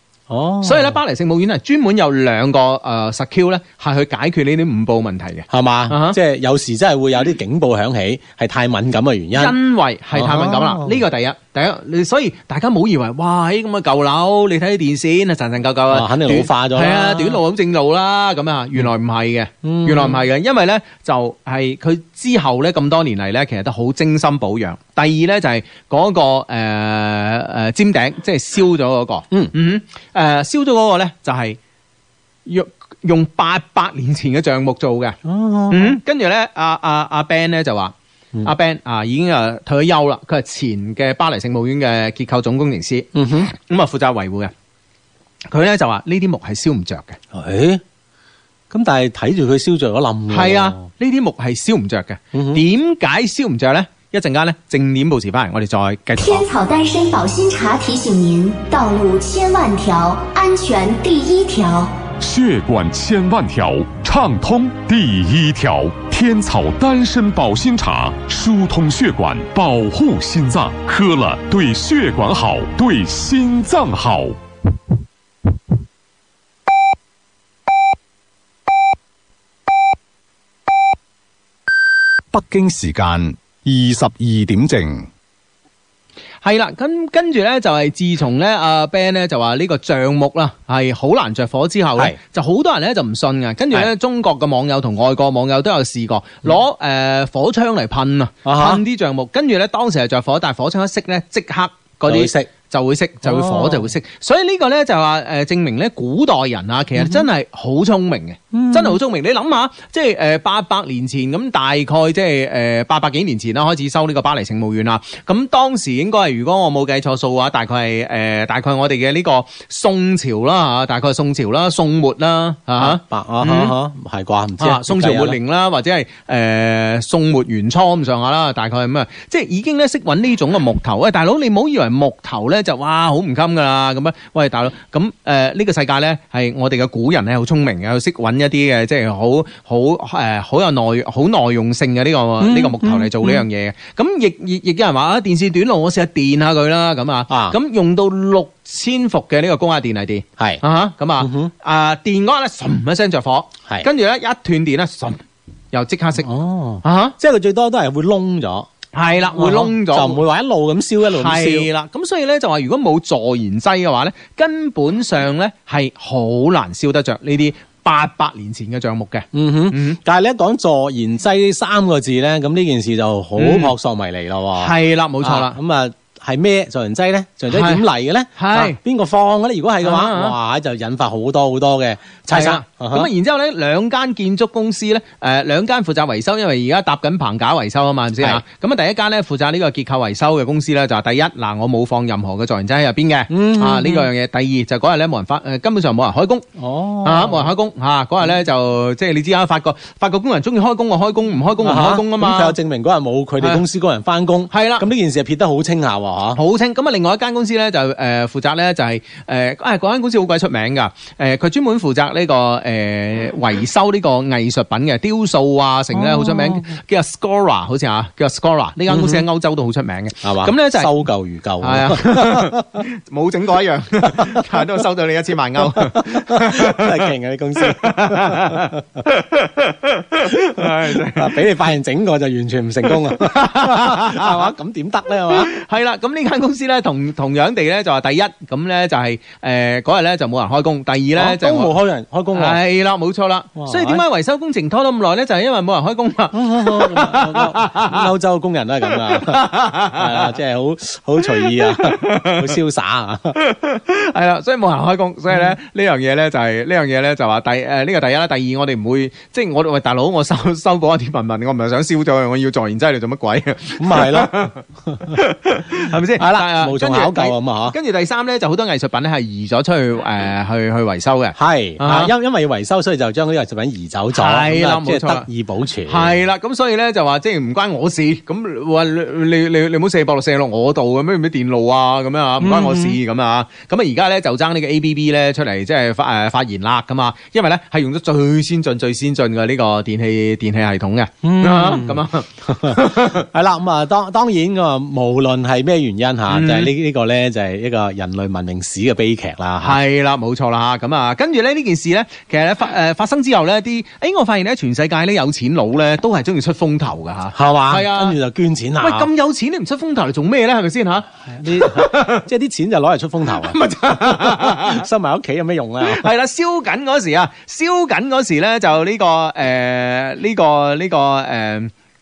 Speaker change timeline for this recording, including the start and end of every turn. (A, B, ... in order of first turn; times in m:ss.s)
0:00.3-0:01.0 A
0:00.6-0:06.2 B
0:05.5-0:09.6 A
0:09.4-0:31.6 B
0:10.2-0:11.0 A
0:15.9-0:17.4 A
0:19.6-0:20.2 A
0:32.5-0:35.2 B
0:35.2-0:36.0 A
0:35.7-0:44.5 B
0:43.2-0:43.5 A
0:45.5-0:47.2 B
0:47.3-0:47.8 A
0:48.7-0:50.8 A
0:50.3-0:56.4 B
0:52.3-0:52.6 A
0:56.2-1:01.9 C
1:02.2-1:14.4 D
1:22.3-1:25.1 E
1:26.4-2:03.7 B
1:38.4-1:38.8 A
1:42.1-1:42.5 A
1:43.2-1:43.9 A
1:47.0-1:47.2 A
1:48.5-1:49.0 A
2:02.8-2:05.4 A
2:04.6-2:36.3 B
2:22.4-2:23.4 A
2:27.3-2:27.6 A
2:31.2-2:31.5 A
2:36.2-2:38.7 A
2:36.8-2:37.2 B
2:38.9-2:40.2 B
2:39.4-2:41.7 A
2:41.0-2:50.0 B
2:49.3-3:03.1 A
2:53.4-2:53.7 B
2:54.6-2:55.6 B
2:57.5-2:57.8 B
2:58.4-2:58.8 B
2:59.8-3:00.4 B
3:02.3-3:16.5 B
3:13.3-3:14.1 A
3:16.6-3:17.5 A
3:17.0-3:22.6 B
3:21.6-3:26.4 A
3:24.5-3:24.9 B
3:26.4-3:40.9 B
3:35.9-3:36.7 A
3:38.9-3:39.2 A
3:40.2-3:42.8 A
3:41.6-3:51.5 B
3:44.1-3:44.6 A
3:45.8-3:49.0 A
3:50.6-3:55.5 A
3:52.9-3:54.6 B
3:55.2-4:01.7 B
4:01.2-4:02.6 A
4:02.3-4:08.1 B
4:03.6-4:04.0 A
4:06.3-4:13.4 A
4:08.9-4:10.3 B
4:11.2-4:12.6 B
4:13.4-4:32.1 B
4:23.8-4:25.2 A
4:26.2-4:27.8 A
4:31.4-4:36.2 A
4:34.1-4:35.3 B
4:35.9-4:53.2 B
4:42.4-4:43.0 A
4:51.2-4:59.8 A
4:56.3-4:56.7 B
4:59.6-5:08.2 B
5:07.3-5:09.1 A
5:08.8-5:12.2 B
5:11.3-5:16.1 A
5:13.4-5:14.8 B
5:15.8-5:21.7 B